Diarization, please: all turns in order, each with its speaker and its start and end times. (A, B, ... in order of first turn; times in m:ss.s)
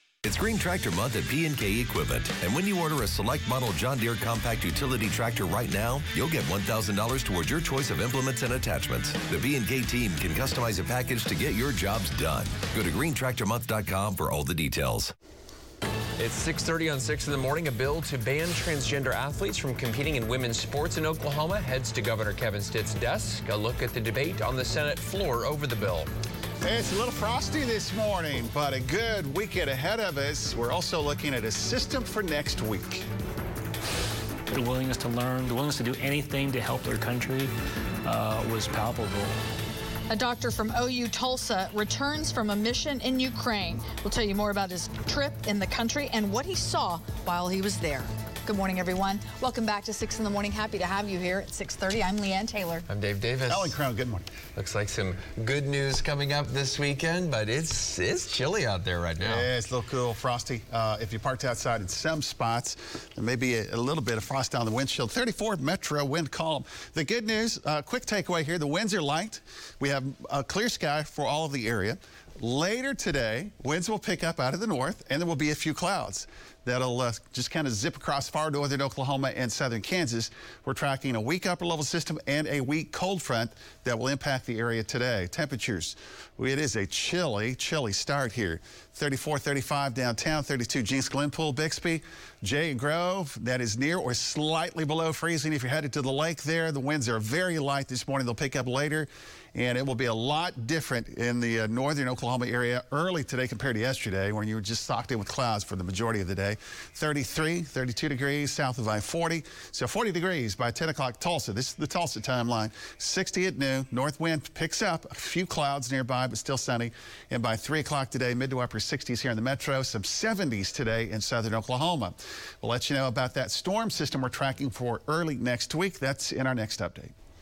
0:00.2-0:15.1 A
0:16.2-0:26.1 B
0:26.6-0:33.0 C
0:34.5-0:39.4 D
0:40.1-0:52.8 E
0:52.9-0:53.8 B
0:53.5-0:54.2 C
0:54.6-0:59.5 B
0:59.2-2:07.1 C